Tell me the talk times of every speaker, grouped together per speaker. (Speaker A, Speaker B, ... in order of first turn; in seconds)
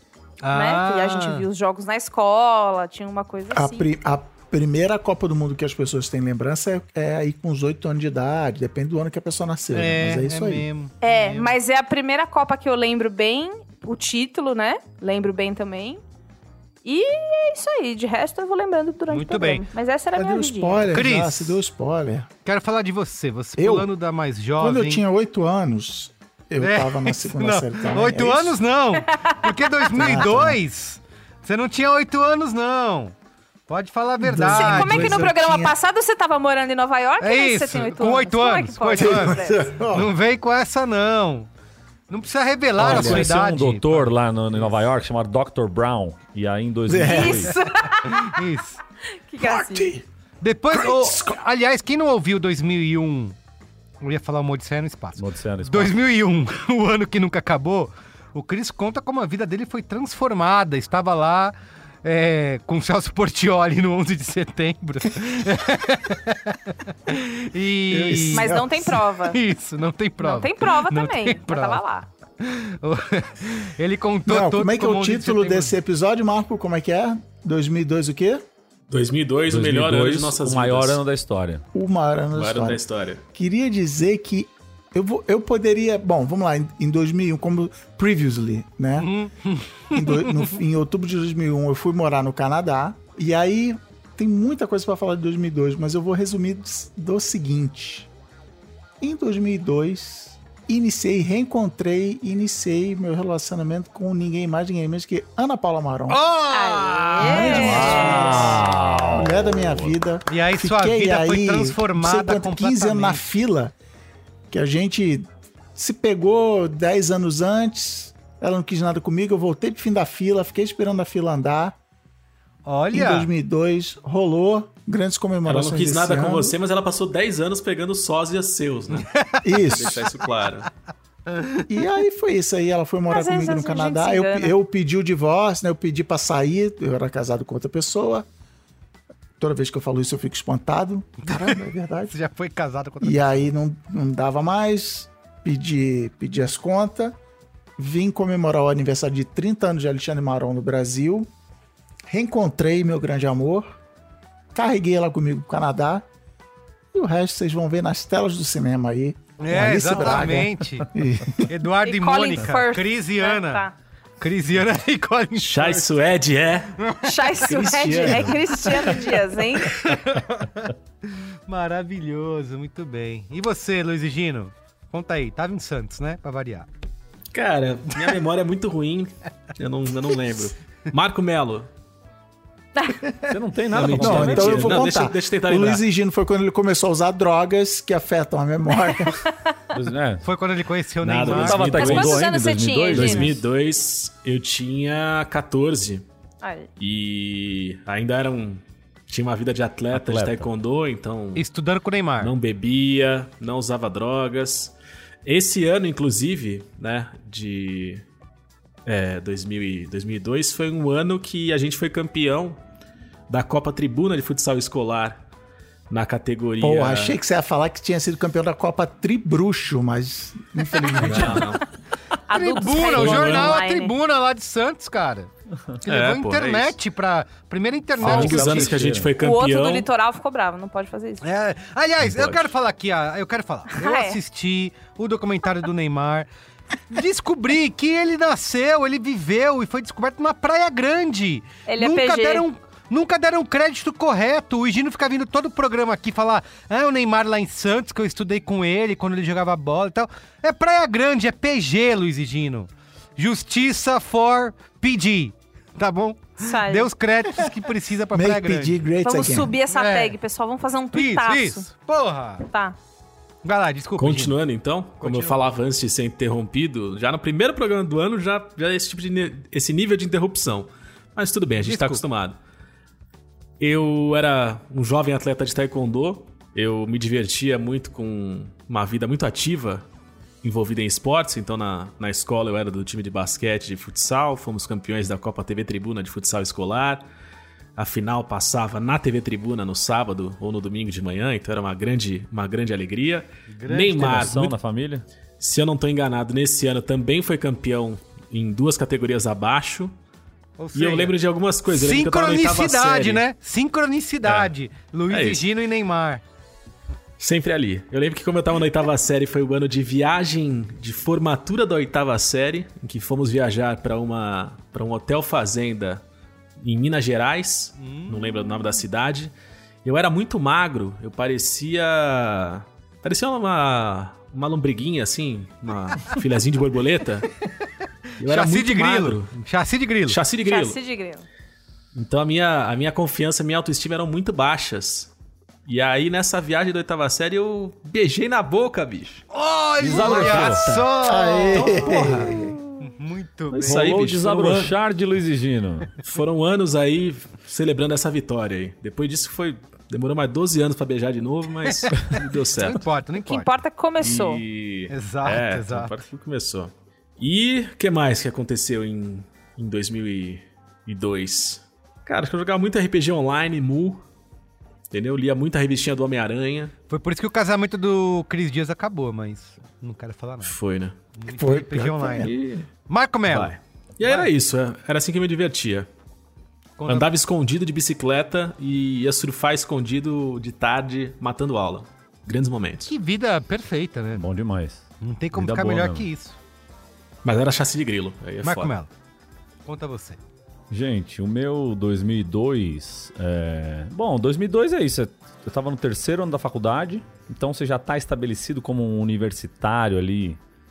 Speaker A: 0.4-1.5, 9.7-11.5, 19.1-19.6, 20.9-21.6, 22.4-25.0, 26.6-33.1, 33.7-35.3, 37.2-41.5, 42.1-44.7, 48.0-48.8, 50.4-53.4, 54.0-68.6, 69.3-71.8, 72.4-75.8, 89.0-90.5, 106.1-109.1, 110.3-113.2, 122.7-123.3, 129.0-129.7, 131.3-131.6, 141.2-143.5, 159.4-160.9, 161.5-163.6, 164.2-165.9, 166.8-167.3, 168.1-169.0, 169.7-176.7, 190.2-192.1, 201.3-202.3, 222.3-225.3, 225.8-228.8, 231.2-236.3, 236.9-258.8, 259.7-260.2, 260.9-262.5, 263.4-264.4, 265.0-265.4, 271.6-272.0, 293.5-294.3, 300.6-301.1, 301.7-306.2, 317.8-318.5, 328.2-330.2, 339.3-343.9, 351.8-353.5, 354.9-355.9, 366.9-370.6, 371.2-372.3, 372.9-374.3, 376.8-377.1, 382.9-384.2, 385.0-386.4, 388.4-388.9, 389.7-390.2
Speaker B: 0.5-3.9, 11.0-16.0, 16.8-20.9, 29.1-29.9, 34.4-39.7, 47.1-48.4, 49.3-49.9, 68.3-69.4, 70.2-72.1, 106.5-108.3, 133.1-134.5, 161.8-163.7, 167.0-169.8, 191.7-193.3, 196.4-196.7, 222.3-223.9, 229.2-231.2, 233.8-234.2, 241.7-242.4, 256.4-256.9, 259.0-261.7, 262.5-262.8, 330.5-331.3, 353.2-354.4
Speaker C: 3.5-10.7, 20.1-22.3, 23.6-23.9, 24.6-28.6, 29.9-30.6, 34.2-35.8, 38.9-40.1, 42.9-43.2, 46.9-47.5, 49.4-50.0, 50.7-51.4, 67.9-69.0, 74.3-78.4, 81.7-82.8, 83.3-89.1, 89.9-98.1, 99.0-106.2, 107.2-113.7, 114.5-121.8, 122.9-126.6, 129.4-130.1, 131.7-138.3, 139.4-142.1, 143.0-147.2, 147.8-151.3, 152.1-153.8, 154.5-156.1, 156.9-161.5, 183.8-189.2, 216.6-221.5, 258.1-259.5, 341.0-342.5, 371.3-372.3
Speaker D: 42.8-47.5, 55.2-56.0, 79.5-81.6, 107.4-109.9, 183.3-184.9, 189.7-190.3, 191.0-193.4, 199.9-200.5, 228.0-229.1, 293.9-295.1, 339.8-340.9, 343.6-345.9, 384.1-386.1, 390.7-400.4
Speaker E: 78.9-81.0, 82.3-83.2, 125.5-129.1, 129.7-130.7, 165.4-166.8, 167.4-168.9, 177.3-181.7, 183.7-185.8, 191.0-192.2, 192.9-196.0, 196.8-201.4, 202.2-204.7, 205.2-208.0, 208.9-212.6, 213.3-215.2, 215.9-217.2, 221.0-221.6, 222.9-223.6, 225.9-226.8, 228.0-229.9, 264.0-272.4, 273.6-279.9, 280.4-287.1, 287.8-294.6, 295.4-299.9, 300.8-303.2, 304.2-304.5, 305.1-305.5, 307.2-316.0, 316.6-319.3, 319.8-327.3, 328.2-329.4, 330.1-330.8, 331.9-335.1, 335.7-339.2, 339.9-340.9, 341.5-342.5, 343.5-344.7, 346.0-352.9, 354.0-364.0, 364.9-366.7, 370.4-371.0, 372.2-372.7, 373.3-375.9, 376.9-382.9, 387.2-388.7